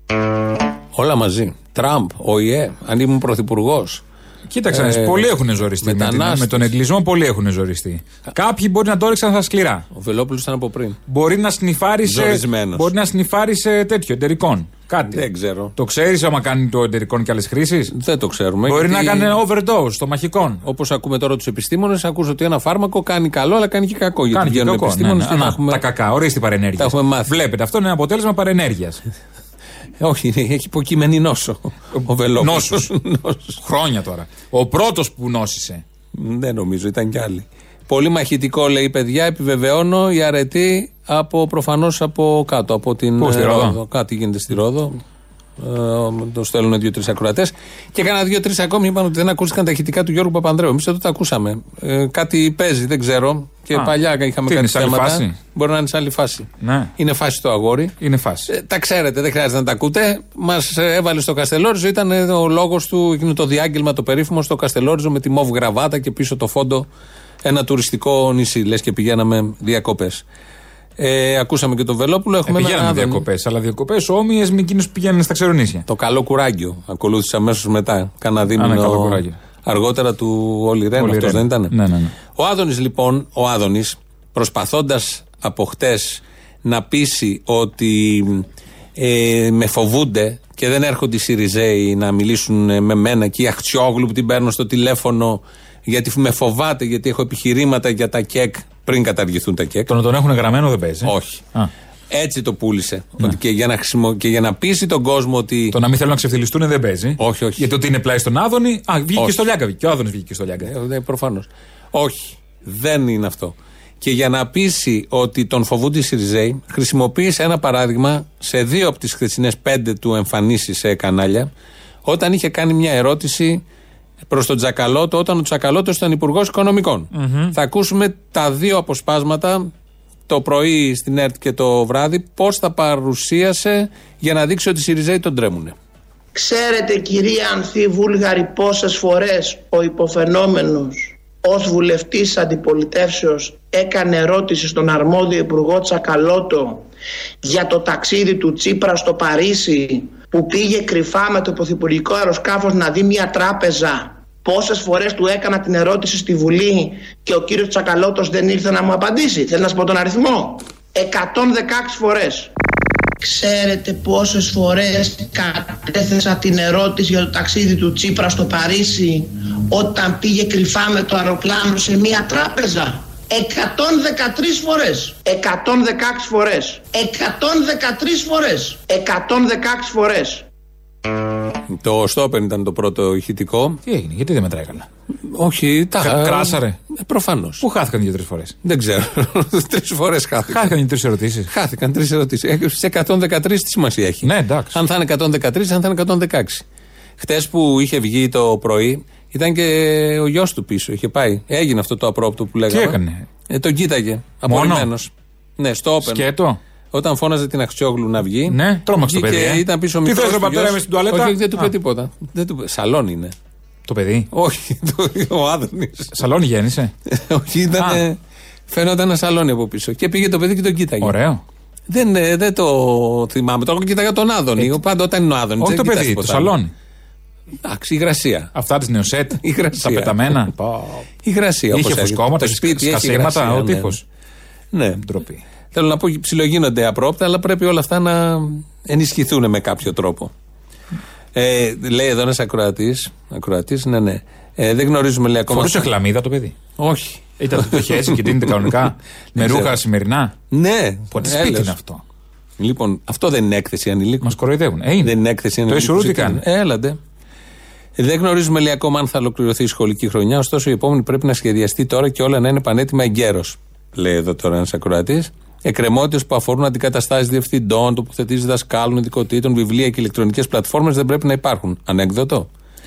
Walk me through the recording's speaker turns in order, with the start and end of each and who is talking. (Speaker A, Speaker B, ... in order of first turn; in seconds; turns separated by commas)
Speaker A: 0.9-4.0, Speaker B: 4.5-9.8, Speaker A: 4.7-6.7, Speaker A: 9.9-11.0, Speaker B: 11.1-15.2, Speaker A: 12.0-12.9, Speaker A: 15.1-15.7, Speaker B: 15.7-17.9, Speaker A: 17.9-19.3, Speaker B: 18.7-20.6, Speaker A: 20.6-25.8, Speaker B: 24.3-29.0, Speaker A: 26.8-27.3, Speaker A: 30.0-33.6, Speaker B: 32.0-32.9, Speaker B: 33.6-35.8, Speaker A: 36.1-45.0, Speaker B: 43.2-43.8, Speaker A: 45.6-57.9, Speaker B: 54.5-55.3, Speaker B: 56.6-56.9, Speaker B: 58.0-58.5, Speaker A: 58.5-66.9, Speaker A: 67.4-70.2, Speaker A: 71.0-73.2, Speaker B: 72.5-75.8, Speaker A: 75.9-81.7, Speaker B: 78.5-79.3, Speaker B: 81.0-82.1, Speaker A: 82.3-88.5, Speaker A: 89.0-99.9, Speaker B: 99.9-101.7, Speaker A: 101.0-101.4, Speaker A: 102.1-105.8, Speaker B: 105.7-110.7, Speaker A: 107.2-107.7, Speaker A: 109.2-109.5, Speaker A: 110.6-121.5, Speaker A: 122.0-123.6, Speaker A: 124.3-129.7, Speaker B: 127.1-127.5, Speaker A: 130.3-135.7, Speaker C: 136.3-146.9, Speaker C: 147.4-162.5, Speaker C: 163.2-180.4, Speaker A: 181.7-183.8, Speaker B: 183.8-184.9, Speaker A: 185.3-187.6, Speaker B: 186.0-186.8, Speaker B: 187.6-188.6, Speaker A: 188.6-190.7, Speaker B: 190.5-191.5, Speaker A: 191.5-196.6, Speaker B: 194.2-194.8, Speaker A: 197.2-203.0, Speaker B: 202.7-203.2, Speaker A: 203.5-206.3, Speaker B: 204.5-204.9, Speaker B: 206.0-206.6, Speaker A: 206.9-213.3, Speaker B: 208.5-211.7, Speaker B: 213.9-214.3, Speaker A: 214.3-216.1, Speaker B: 216.1-216.9, Speaker A: 217.1-218.2, Speaker B: 217.8-218.0, Speaker A: 218.7-221.1, Speaker B: 221.0-221.4, Speaker A: 221.9-226.5, Speaker B: 225.6-226.7, Speaker A: 227.6-228.5, Speaker B: 228.5-231.1, Speaker A: 229.4-230.4, Speaker A: 231.2-233.9, Speaker B: 231.7-234.0, Speaker A: 234.7-235.0, Speaker B: 235.0-235.4, Speaker A: 235.7-240.3, Speaker A: 241.3-245.9, Speaker B: 245.5-246.5, Speaker A: 246.8-248.8, Speaker B: 247.4-250.3, Speaker A: 249.3-249.8, Speaker A: 250.5-251.7, Speaker B: 251.1-252.0, Speaker A: 252.6-254.3, Speaker B: 254.2-255.1, Speaker A: 255.0-257.0, Speaker B: 255.7-256.4, Speaker A: 258.0-272.5